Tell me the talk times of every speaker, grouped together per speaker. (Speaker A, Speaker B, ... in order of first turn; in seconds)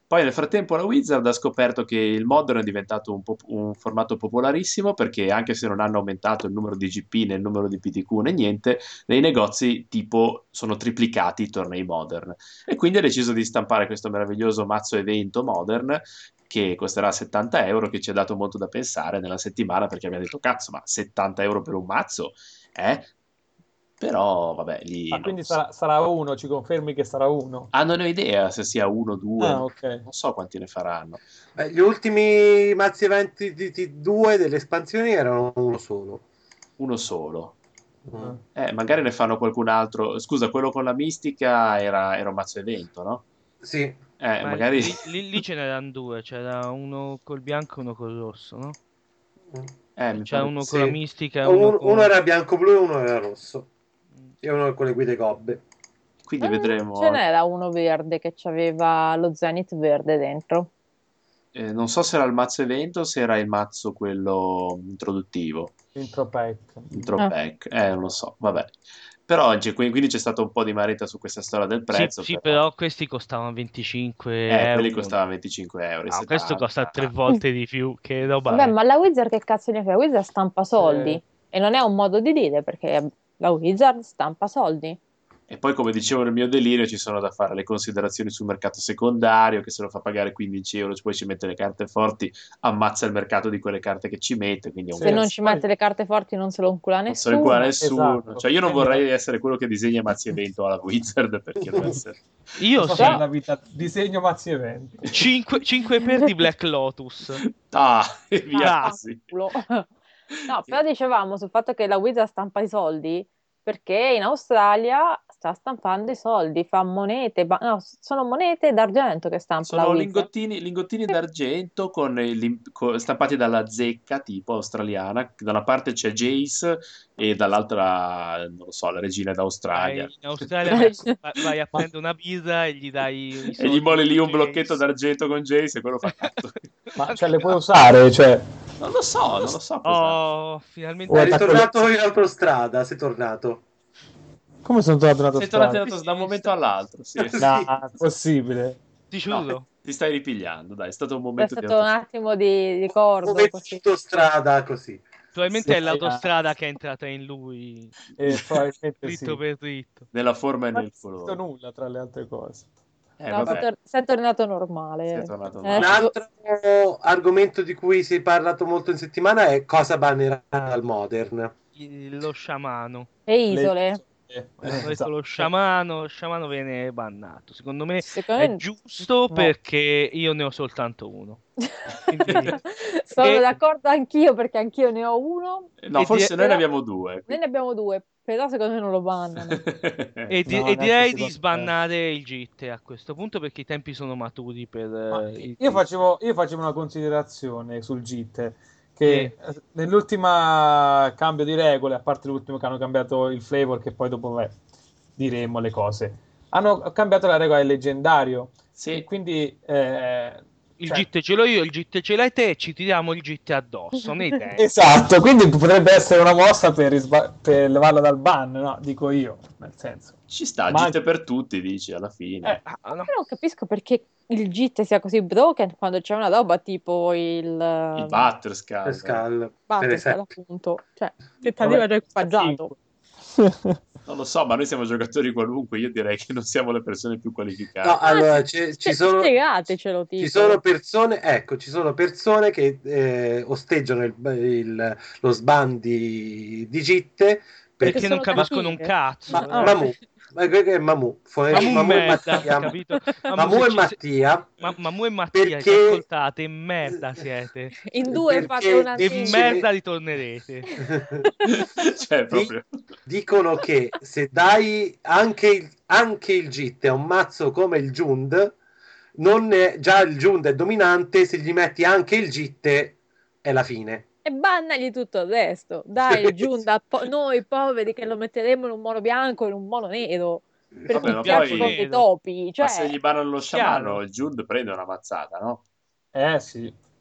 Speaker A: 0.1-23.1, 24.0-25.6, 27.7-31.2, 36.8-37.6, 38.5-43.2, 44.2-45.0, 50.0-50.9, 56.3-57.2, 61.5-65.8, 66.9-72.6, 74.5-77.1, 85.5-95.3, 97.1-102.2, 107.3-109.2, 110.3-110.8, 119.7-130.5, 133.6-136.5, 138.8-140.2, 145.3-147.4, 149.3-151.9, 160.1-161.4, 163.2-163.7, 165.1-166.0, 185.8-187.4, 189.4-190.4, 208.8-209.1, 220.3-222.6, 227.9-229.2, 234.1-238.0, 261.4-262.8, 280.9-281.8, 282.6-285.6
Speaker B: 25.1-27.7, 29.4-30.1, 66.0-67.1, 80.8-81.2, 94.9-95.7, 97.8-99.0, 102.8-105.1, 137.0-138.5, 141.1-141.7, 144.6-145.8, 147.4-148.8, 155.6-156.3, 158.2-159.4, 160.7-162.7, 173.5-175.5, 190.5-191.7, 195.1-204.6, 205.2-211.1, 214.6-220.2, 220.7-221.0, 231.6-232.8, 233.3-233.8, 286.1-286.8
Speaker C: 31.6-36.2, 38.1-38.4, 43.6-44.0, 50.7-53.7, 54.4-55.6, 141.1-143.6, 147.2-147.7, 153.2-155.0, 165.8-171.5, 228.8-230.2, 237.8-239.4, 240.2-248.5, 249.3-252.7, 253.4-254.5, 255.3-256.0, 258.1-259.7, 260.8-261.3, 263.1-268.6, 269.2-274.0, 276.1-276.6
Speaker D: 44.4-48.8, 50.1-52.1, 71.9-75.2, 76.1-78.7, 102.6-103.2, 105.1-107.4, 108.6-109.0, 129.7-134.8, 136.1-136.3, 139.8-141.7, 145.8-146.5, 149.1-149.7, 155.3-158.0, 159.0-160.1, 171.8-173.1, 174.8-181.4, 182.1-182.6, 183.2-183.5, 185.9-186.4, 190.3-195.8, 199.0-199.3, 210.8-214.7, 222.6-223.1, 247.8-249.8, 251.5-254.0, 254.6-257.8, 259.0-260.7, 281.1-282.1, 283.4-284.0
Speaker E: 56.4-60.7, 78.5-85.0, 95.0-97.7, 108.5-109.9, 110.5-120.3, 130.7-131.2, 151.4-153.8, 163.3-166.1, 173.3-174.0, 178.0-178.6, 181.7-185.7, 186.3-186.6, 187.3-189.6, 223.1-228.3, 229.7-232.7, 238.1-240.6, 247.8-250.0, 251.5-252.2, 252.7-253.4, 257.8-259.6, 260.8-261.7, 274.2-283.0